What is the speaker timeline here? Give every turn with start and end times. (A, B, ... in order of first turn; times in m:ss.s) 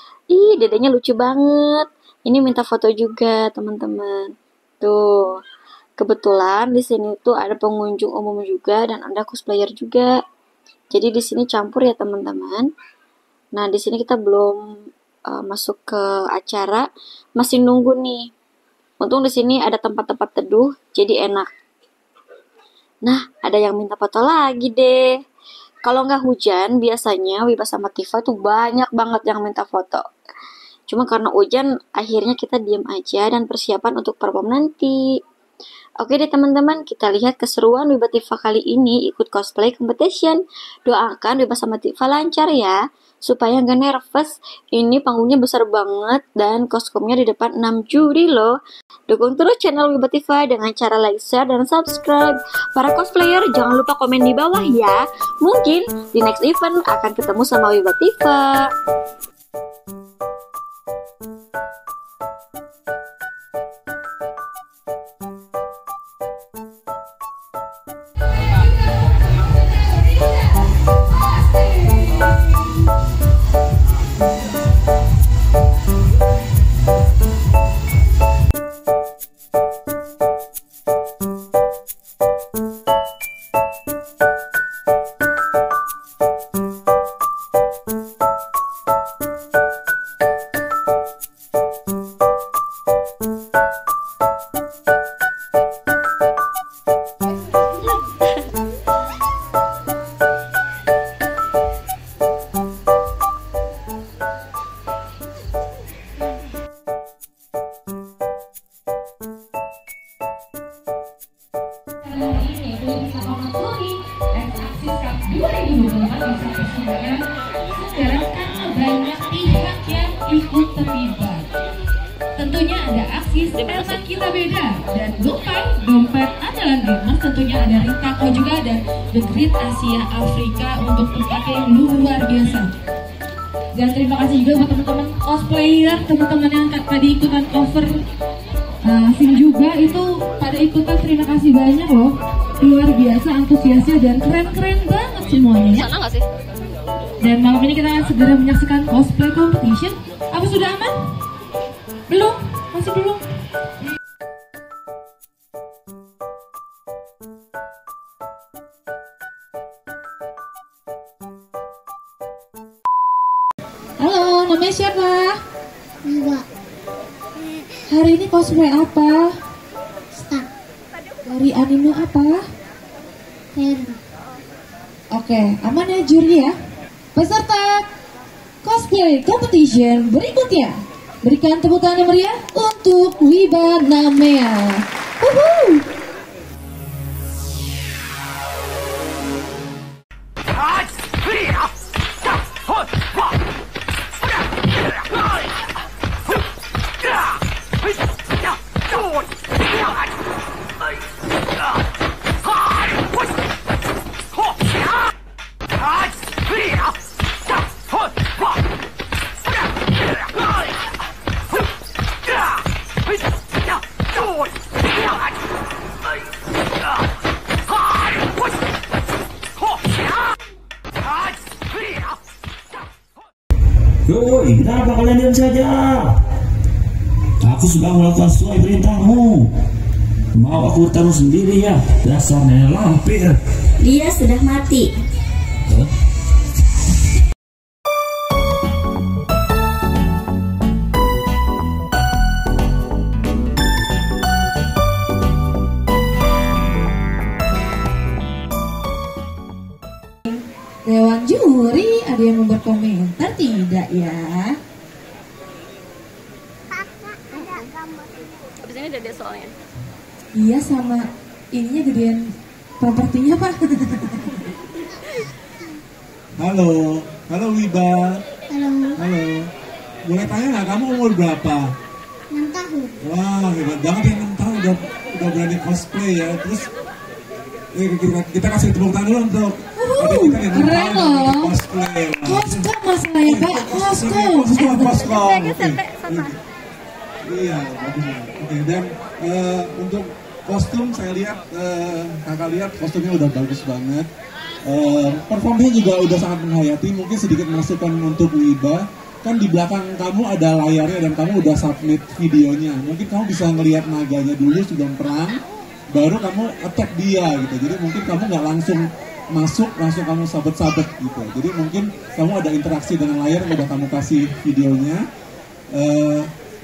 0:00.3-0:04.2 A
0:04.8-0:05.4 A
0:06.0-0:10.1 A
0:10.9-0:12.7 A
0:13.6-0:14.6 A
0:15.3-0:16.9 A
0:17.4-0:18.3 A
0:19.0-0:21.5 A
0:23.0-0:25.1 A
0:25.8-0:30.0 A
0:30.9-0:35.0 A
0:36.0-0:48.5 A
0:49.1-0:58.7 A
1:52.0-1:57.2 B
1:57.8-2:01.5 B
2:02.4-2:12.7 B
2:13.7-2:18.0 B
2:18.8-2:26.0 B
2:27.2-2:30.9 B
2:32.1-2:33.2 B
2:44.0-2:45.4 B
2:46.0-2:46.4 C
2:47.9-2:49.3 B
2:50.1-2:50.5 C
2:51.2-2:52.4 B
2:53.5-2:54.0 C
2:55.1-2:56.5 B
2:57.1-2:57.9 B
2:58.6-3:05.8 B
3:44.1-3:46.1 D
3:47.4-3:49.5 D
3:50.3-3:53.4 D
3:53.8-3:54.9 A
4:10.8-4:14.6 B
4:16.8-4:17.8 C
4:20.4-4:24.4 B
4:26.4-4:28.2 E
4:28.5-4:29.0 C
4:29.0-4:29.5 E
4:30.0-4:31.7 E
4:32.3-4:32.9 C
4:33.0-4:36.7 E
4:37.7-4:42.7 E
4:39.8-4:41.5 B
4:42.2-4:45.1 B
4:43.2-4:46.4 E
4:47.2-4:54.1 E
4:54.6-5:05.4 E
5:05.9-5:15.0 E
5:15.7-5:16.3 E